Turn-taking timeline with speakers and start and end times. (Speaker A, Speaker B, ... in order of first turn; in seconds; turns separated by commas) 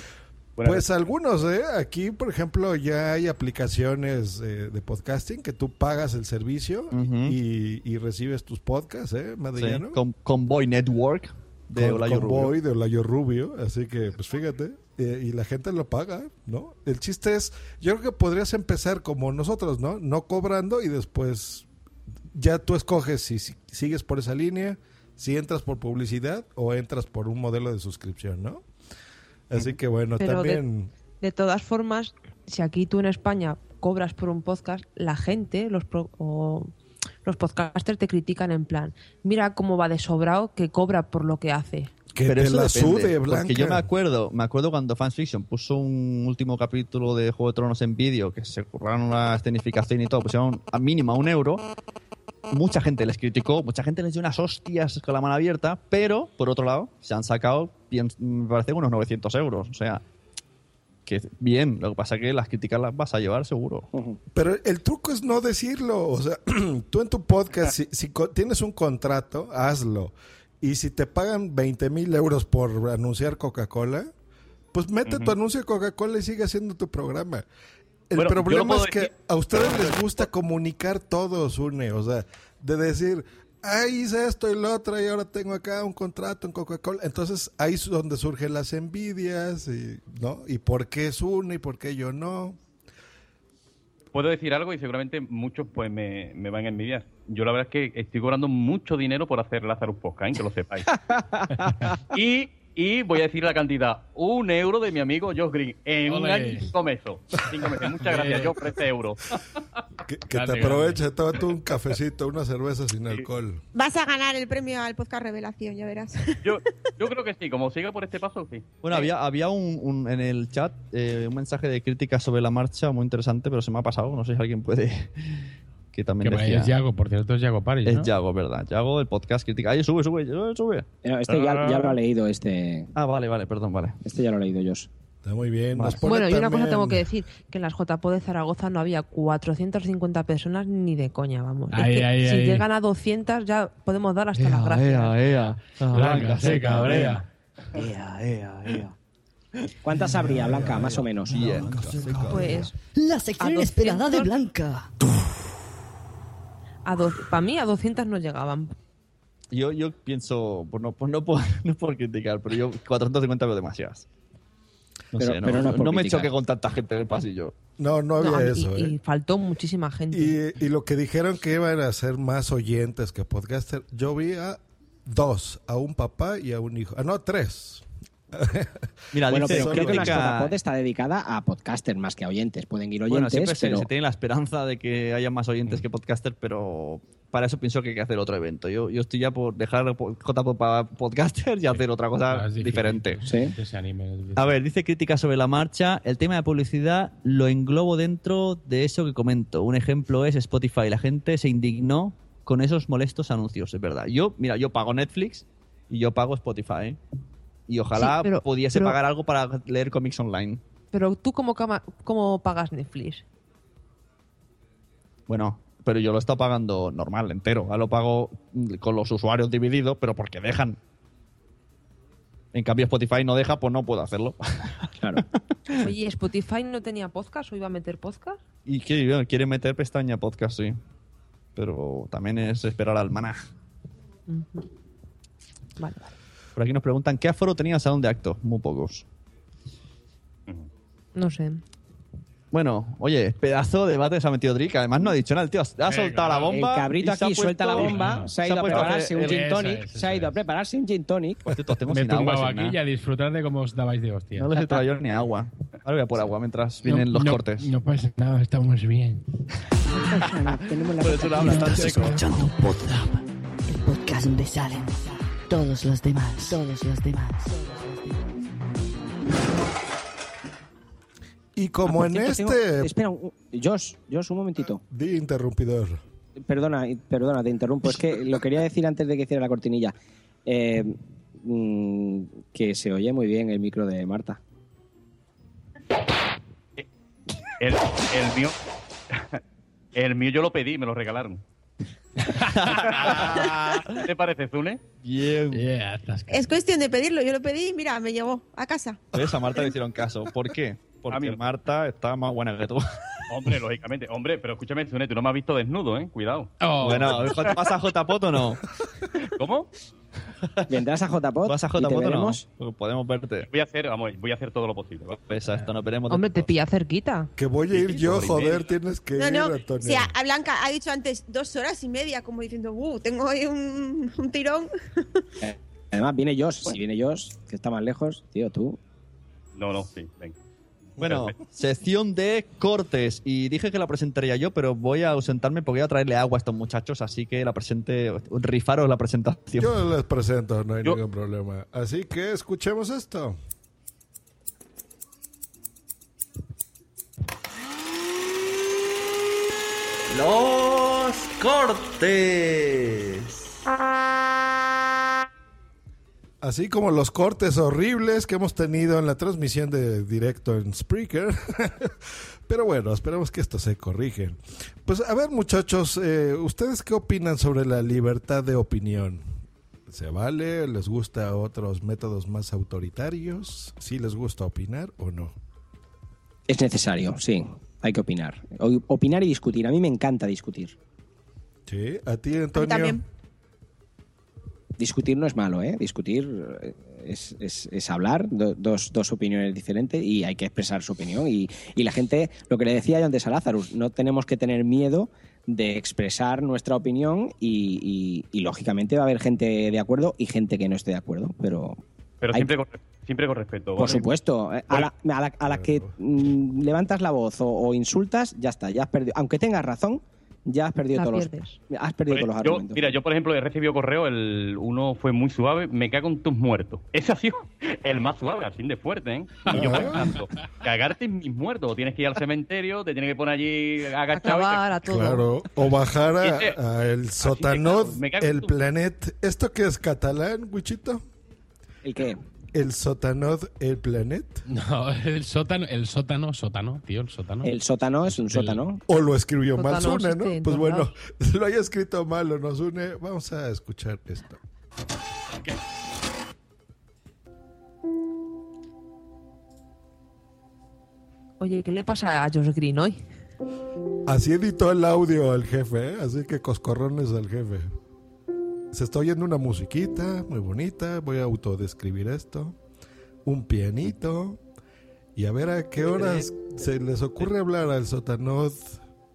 Speaker A: 0.6-0.9, Speaker B: 0.6-10.0, Speaker C: 6.9-7.4, Speaker C: 9.6-12.6, Speaker B: 11.8-21.7, Speaker B: 22.3-28.6, Speaker B: 29.5-30.9, Speaker D: 30.2-30.6, Speaker D: 31.2-36.7, Speaker D: 37.2-41.9, Speaker B: 42.1-43.9, Speaker C: 42.2-51.6, Speaker C: 52.5-60.0, Speaker C: 61.1-63.9, Speaker E: 63.9-64.2, Speaker B: 64.3-74.1, Speaker B: 74.7-77.5, Speaker A: 75.1-75.3, Speaker B: 78.1-92.6, Speaker A: 78.2-80.3, Speaker A: 94.1-101.0, Speaker A: 102.1-109.3, Speaker F: 106.1-106.7, Speaker F: 108.0-108.7, Speaker B: 110.1-113.6, Speaker F: 110.3-111.0, Speaker G: 113.8-116.5, Speaker A: 116.4-119.0, Speaker C: 118.8-126.7, Speaker F: 126.2-128.1, Speaker C: 127.8-131.9, Speaker E: 131.0-132.9, Speaker C: 132.9-134.0, Speaker E: 134.0-134.9, Speaker B: 135.2-137.1, Speaker D: 136.1-145.2, Speaker F: 141.7-142.7, Speaker F: 144.3-147.2, Speaker C: 144.7-147.2, Speaker C: 147.8-148.9, Speaker E: 149.8-151.5, Speaker C: 150.5-152.7, Speaker D: 152.3-152.7, Speaker H: 153.0-154.9, Speaker D: 153.4-154.3, Speaker C: 153.4-153.9, Speaker D: 156.8-158.8, Speaker C: 159.5-164.1, Speaker C: 165.1-167.6, Speaker E: 165.2-166.3, Speaker B: 167.8-169.0, Speaker D: 168.2-170.4, Speaker B: 170.1-180.2, Speaker C: 179.1-180.6, Speaker E: 179.3-183.9, Speaker C: 183.1-193.2, Speaker F: 191.7-194.6, Speaker E: 193.2-193.5, Speaker C: 194.4-207.0, Speaker C: 207.7-210.6, Speaker D: 207.9-209.0, Speaker D: 210.9-213.2, Speaker C: 215.3-220.8, Speaker C: 222.5-225.9, Speaker D: 225.8-228.4, Speaker C: 228.7-230.8, Speaker C: 231.6-233.4, Speaker D: 234.3-234.7, Speaker D: 235.8-236.1, Speaker C: 236.6-239.0, Speaker D: 241.2-241.6, Speaker C: 242.5-249.5, Speaker F: 245.9-246.5, Speaker E: 246.4-251.4, Speaker F: 247.8-250.4, Speaker C: 251.5-252.8, Speaker F: 251.8-254.7, Speaker C: 254.4-257.6, Speaker F: 256.8-259.2, Speaker E: 260.1-262.1, Speaker C: 261.0-262.3, Speaker H: 261.4-268.3, Speaker B: 271.6-272.9, Speaker E: 271.9-274.8, Speaker B: 274.9-276.0, Speaker E: 276.5-279.9, Speaker E: 280.5-284.4, Speaker A: 287.6-288.6, Speaker A: 289.1-289.4, Speaker A: 290.0-291.4, Speaker F: 292.2-293.5, Speaker C: 292.5-294.0, Speaker A: 292.8-294.8, Speaker C: 295.0-295.6, Speaker F: 295.5-296.5, Speaker G: 296.3-299.0, Speaker C: 299.1-302.8, Speaker A: 301.1-301.4, Speaker A: 303.3-307.6, Speaker F: 306.6-307.4, Speaker C: 306.8-308.6, Speaker A: 309.4-309.7, Speaker E: 310.7-312.4, Speaker C: 311.5-313.5, Speaker A: 313.5-315.2, Speaker C: 315.3-316.5, Speaker D: 316.1-317.3, Speaker B: 317.4-320.1, Speaker C: 317.8-318.6, Speaker G: 319.2-324.7, Speaker E: 325.4-328.8, Speaker A: 329.6-330.4, Speaker C: 331.0-339.8, Speaker A: 331.0-331.3, Speaker B: 339.6-343.4, Speaker C: 350.1-353.2, Speaker B: 356.4-361.9, Speaker B: 362.5-369.2, Speaker B: 369.9-375.3, Speaker E: 376.5-380.8, Speaker B: 381.7-383.0, Speaker G: 382.6-383.0, Speaker E: 384.8-401.8, Speaker A: 402.2-404.1, Speaker E: 403.8-412.9, Speaker B: 405.4-405.9, Speaker D: 410.9-411.6, Speaker A: 412.1-424.7, Speaker F: 419.5-420.1, Speaker B: 419.5-420.0, Speaker D: 424.1-425.3, Speaker B: 424.8-431.0, Speaker A: 426.2-426.6, Speaker A: 427.2-428.6, Speaker E: 431.8-432.2, Speaker B: 432.5-434.4, Speaker F: 434.5-437.5, Speaker E: 437.4-438.8, Speaker F: 438.1-438.6, Speaker B: 438.9-444.4, Speaker D: 439.6-440.9, Speaker D: 451.4-453.0, Speaker B: 454.1-457.7, Speaker B: 458.7-462.6, Speaker B: 463.2-464.4, Speaker B: 465.2-468.8, Speaker C: 465.8-466.3